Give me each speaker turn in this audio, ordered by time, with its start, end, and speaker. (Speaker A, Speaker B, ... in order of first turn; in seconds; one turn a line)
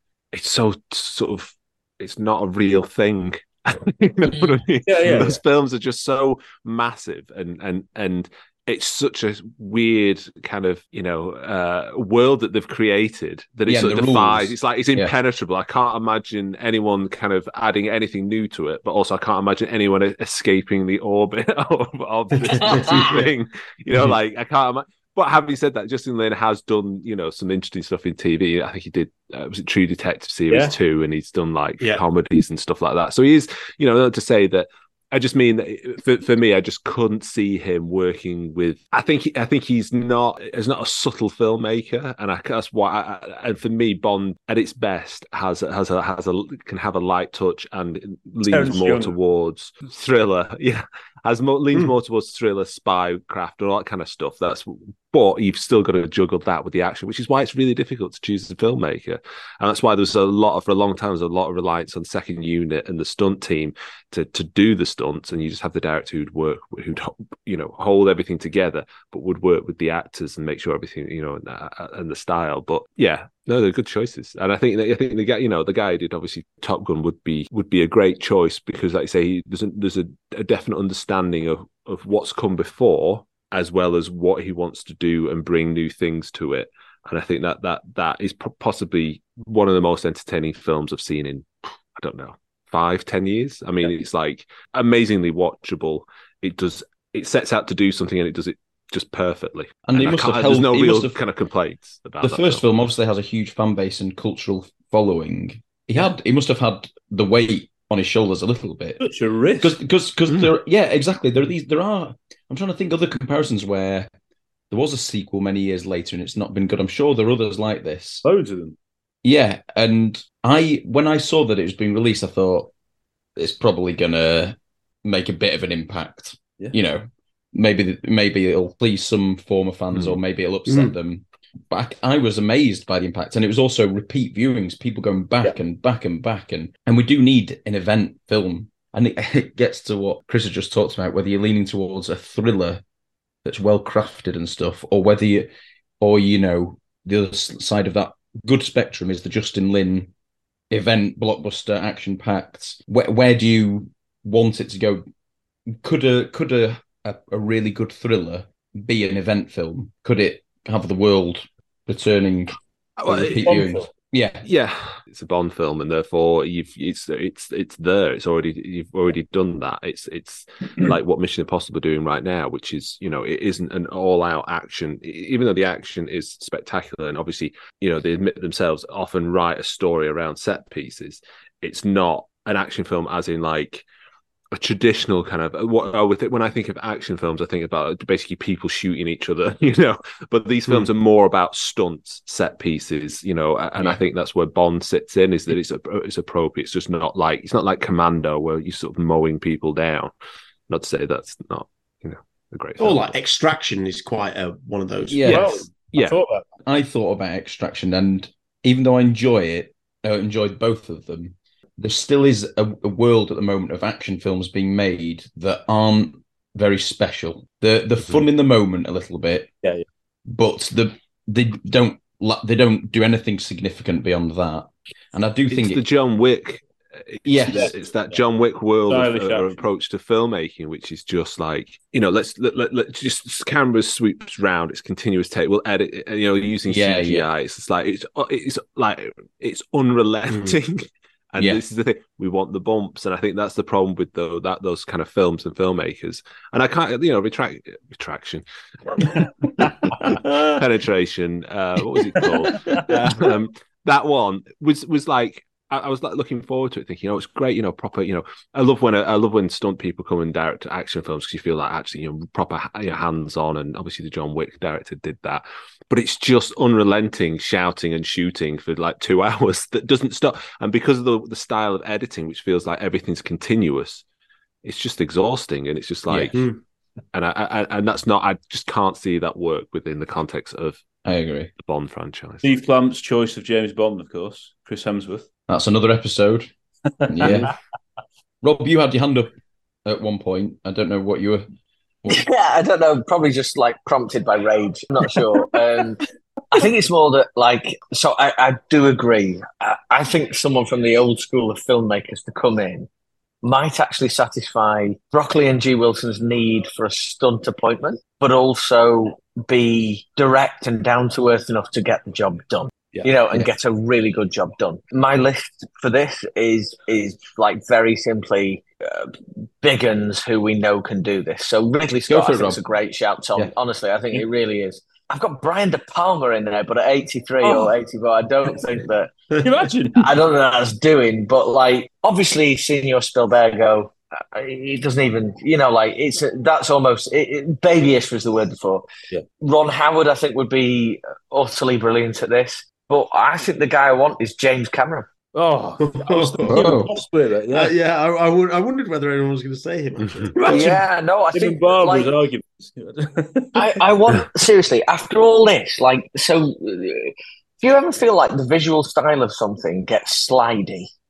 Speaker A: 0.3-102.7
Speaker B: 4.8-5.3
Speaker C: 13.7-15.1
Speaker D: 22.4-23.2
Speaker E: 22.6-23.0
Speaker B: 48.5-49.1
Speaker C: 99.9-101.2
Speaker C: 102.2-109.0
Speaker B: 109.0-109.8
Speaker C: 109.6-114.1
Speaker C: 114.7-118.2
Speaker B: 118.2-118.7
Speaker C: 119.2-122.7
Speaker C: 123.3-142.8
Speaker D: 130.7-130.9
Speaker C: 143.4-145.5
Speaker C: 146.0-150.1
Speaker C: 150.7-155.0
Speaker C: 155.8-162.5
Speaker A: 163.0-163.7
Speaker C: 163.1-164.4
Speaker B: 163.4-163.8
Speaker A: 164.4-183.8
Speaker A: 184.5-200.1
Speaker A: 200.7-203.1
Speaker D: 202.8-205.4
Speaker C: 205.1-219.5
Speaker A: 205.2-206.0
Speaker B: 205.2-206.4
Speaker C: 220.3-225.8
Speaker A: 225.5-248.4
Speaker C: 227.2-227.7
Speaker B: 227.5-228.2
Speaker B: 228.9-229.5
Speaker C: 236.7-237.2
Speaker D: 240.3-240.6
Speaker A: 250.6-274.0
Speaker A: 274.6-276.5
Speaker C: 276.1-276.3
Speaker A: 277.1-280.8
Speaker C: 281.0-281.5
Speaker A: 281.6-282.5
Speaker B: 282.4-285.3
Speaker C: 285.5-286.5
Speaker B: 287.0-287.4
Speaker C: 287.1-287.5
Speaker C: 288.4-289.3
Speaker C: 289.8-291.4
Speaker E: 292.1-296.0
Speaker E: 296.5-302.9
Speaker E: 303.4-329.1
Speaker C: 322.1-322.6
Speaker B: 327.4-327.7
Speaker B: 329.4-330.1
Speaker E: 330.0-338.8
Speaker E: 339.4-345.1
Speaker B: 345.3-347.7
Speaker D: 345.8-346.9
Speaker C: 346.4-346.9
Speaker D: 347.5-350.8
Speaker E: 350.4-352.1
Speaker B: 351.3-353.7
Speaker E: 353.5-360.9